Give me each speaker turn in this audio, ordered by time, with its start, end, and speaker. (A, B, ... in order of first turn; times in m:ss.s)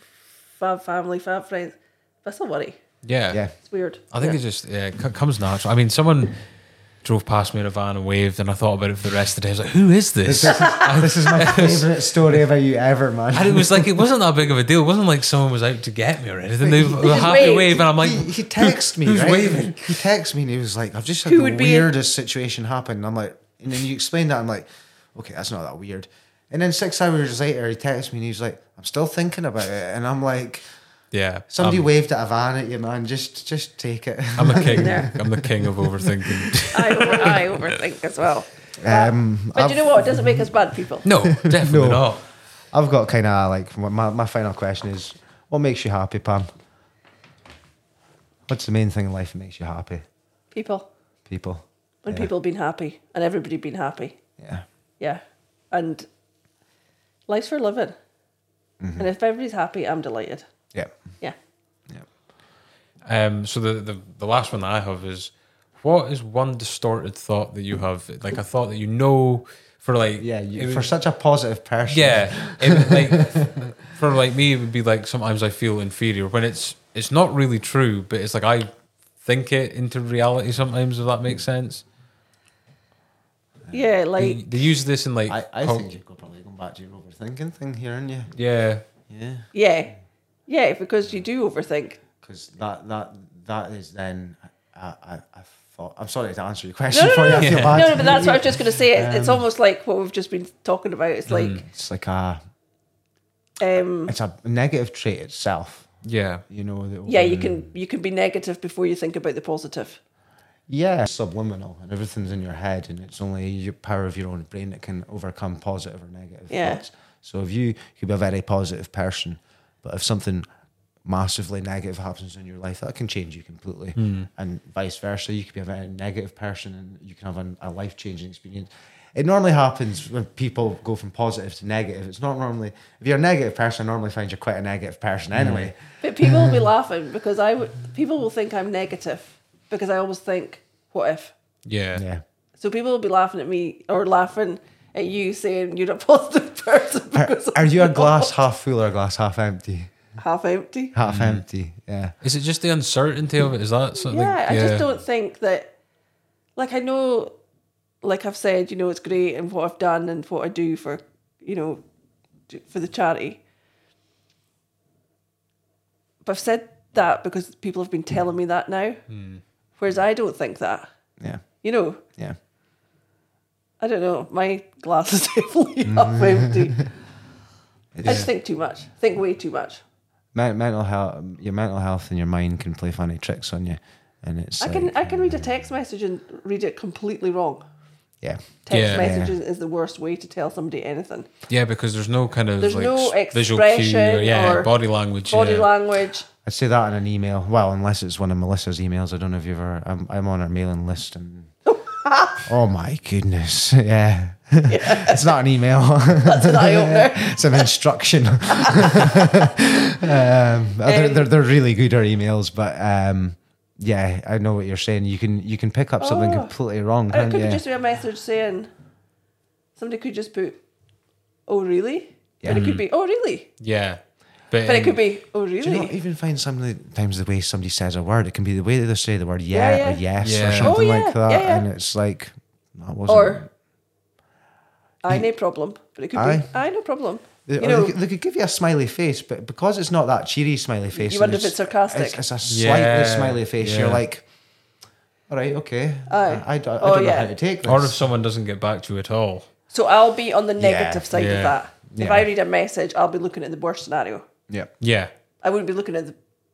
0:00.6-0:02.8 A
0:03.0-0:03.5 B
0:03.6-0:04.4 A
0:04.1-0:06.4 B
0:07.0-0:11.9 B
0:10.2-0:14.0 C
0:10.4-0:11.3 A
0:13.3-0:20.0 B
0:16.6-0:30.6 C
0:16.9-0:17.8 A
0:21.2-0:21.9 A
0:31.1-0:31.9 B
0:31.5-0:36.5 C
0:34.4-0:37.7 B
0:34.5-0:35.1 A
0:36.7-0:41.1 A
0:38.8-0:40.5 C
0:41.0-0:42.2 B
0:41.1-0:42.2 C
0:42.7-0:46.5 C
0:48.5-0:50.0 C
0:50.5-0:50.9 A
0:51.3-0:52.3 C
0:52.0-0:54.2 A
0:54.4-0:54.6 C
0:55.0-0:56.1 A
0:57.3-0:58.0 A
0:58.8-0:59.1 C
0:59.0-1:00.5 A
1:03.1-1:10.9 B
1:10.2-1:13.7 C
1:11.9-1:18.7 B
1:19.2-1:21.8 B
1:23.7-1:24.7 A
1:24.2-1:25.9 B
1:25.3-1:28.3 C
1:28.3-1:28.8 B
1:29.1-1:29.5 C
1:29.5-1:30.0 A
1:30.5-1:32.0 A
1:32.2-1:39.4 C
1:36.9-1:41.6 A
1:37.4-1:38.0 B
1:41.3-1:41.6 B
1:41.7-1:42.4 C
1:43.6-1:44.1 A
1:44.1-1:45.9 C
1:46.0-1:46.4 B
1:46.5-1:47.7 C
1:47.1-1:50.0 A
1:50.7-2:00.5 C
1:56.5-1:56.8 A
2:01.0-2:16.7 C
2:04.0-2:04.3 B
2:15.4-2:15.7 B
2:16.0-2:21.3 A
2:21.6-2:22.0 B
2:21.9-2:22.2 C
2:22.6-2:28.3 A
2:27.2-2:30.1 C
2:30.2-2:31.0 A
2:30.9-2:32.2 C
2:31.0-2:31.4 B
2:32.2-2:34.9 B
2:34.0-2:35.7 A
2:36.6-2:37.3 A
2:38.0-2:41.8 A
2:42.5-2:43.4 A
2:46.2-2:49.0 A
2:49.1-2:49.4 B
2:49.8-2:50.9 A
2:51.2-2:51.4 C
2:51.6-2:52.0 A
2:52.1-2:52.4 C
2:53.8-2:56.9 A
2:55.9-2:56.6 C
2:58.0-2:58.3 C
2:58.0-2:59.8 A
2:58.0-2:58.3 B
3:00.3-3:05.5 C
3:04.6-3:07.6 A
3:08.2-3:09.4 C
3:08.7-3:11.3 A
3:08.7-3:09.2 B
3:11.5-3:15.7 B
3:12.6-3:14.7 A
3:15.2-3:16.3 A
3:16.4-3:21.5 C
3:21.7-3:22.5 A
3:22.5-3:37.6 C
3:24.7-3:25.4 A
3:26.2-3:27.7 A
3:28.5-3:29.5 A
3:30.0-3:31.3 A
3:36.0-3:36.6 A
3:37.1-3:38.7 A
3:39.8-3:40.6 A
3:41.5-3:43.5 A
3:42.4-3:42.7 C
3:42.5-3:42.9 B
3:43.6-3:45.0 B
3:44.6-3:46.0 A
3:45.6-3:53.5 C
3:49.5-3:50.1 A
3:50.2-3:50.8 B
3:50.6-3:51.7 A
3:53.1-3:53.4 A
3:55.0-3:57.9 A
3:56.2-3:56.5 C
3:57.5-4:04.3 C
4:01.0-4:02.2 A
4:02.5-4:04.0 B
4:05.3-4:08.0 C
4:06.1-4:07.3 A
4:07.6-4:09.5 B
4:09.7-4:14.3 A
4:10.6-4:11.1 C
4:11.1-4:11.6 B
4:11.9-4:12.3 C
4:14.8-4:15.1 B
4:15.4-4:16.2 A